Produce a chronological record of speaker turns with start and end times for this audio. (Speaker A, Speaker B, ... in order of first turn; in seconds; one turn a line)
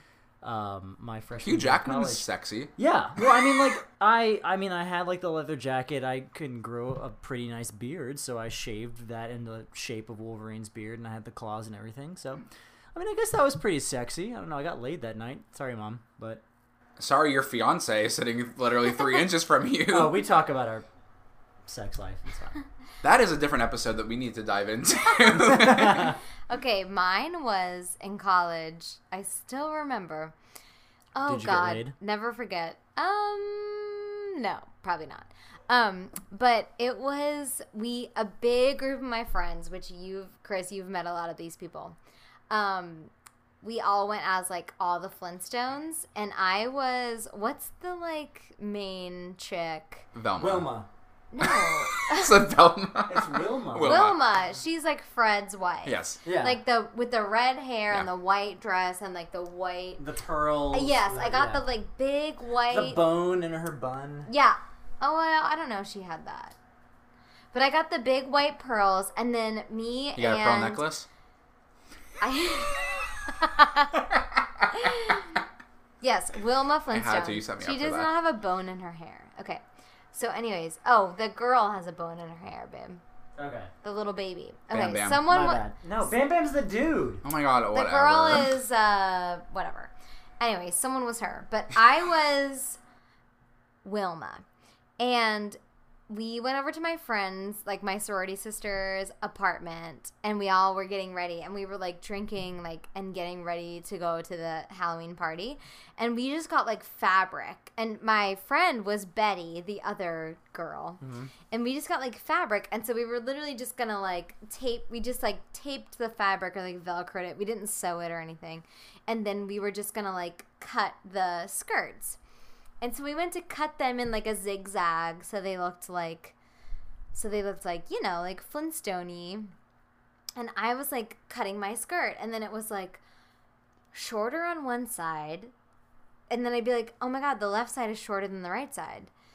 Speaker A: 0.4-2.3
Speaker B: 1.4-2.7
Speaker A: 2.8-12.4
Speaker A: 12.9-16.4
Speaker B: 17.0-20.2
Speaker A: 19.9-20.9
Speaker A: 21.7-22.6
Speaker B: 23.0-26.2
Speaker A: 25.8-26.1
Speaker C: 26.5-30.3
Speaker C: 31.1-42.0
Speaker A: 31.3-32.0
Speaker C: 42.5-43.1
Speaker C: 43.6-50.1
Speaker B: 50.1-50.7
Speaker A: 50.4-50.9
Speaker C: 51.3-52.5
Speaker B: 51.4-54.2
Speaker A: 53.1-54.0
Speaker C: 53.8-60.0
Speaker B: 55.9-56.2
Speaker A: 56.2-56.6
Speaker A: 60.0-61.6
Speaker C: 60.7-63.0
Speaker A: 62.7-64.3
Speaker C: 64.3-66.5
Speaker C: 67.5-70.8
Speaker B: 70.2-71.1
Speaker C: 72.2-74.0
Speaker C: 74.7-75.4
Speaker C: 76.0-83.0
Speaker B: 76.9-78.1
Speaker A: 83.4-83.7
Speaker C: 83.8-85.7
Speaker B: 84.7-85.2
Speaker A: 85.3-87.2
Speaker B: 87.2-88.6
Speaker C: 87.7-92.8
Speaker C: 93.8-94.4
Speaker C: 95.0-122.2
Speaker A: 111.0-111.3
Speaker C: 122.8-126.3
Speaker C: 127.1-129.5
Speaker C: 130.4-133.0
Speaker C: 133.9-135.5
Speaker C: 136.3-139.1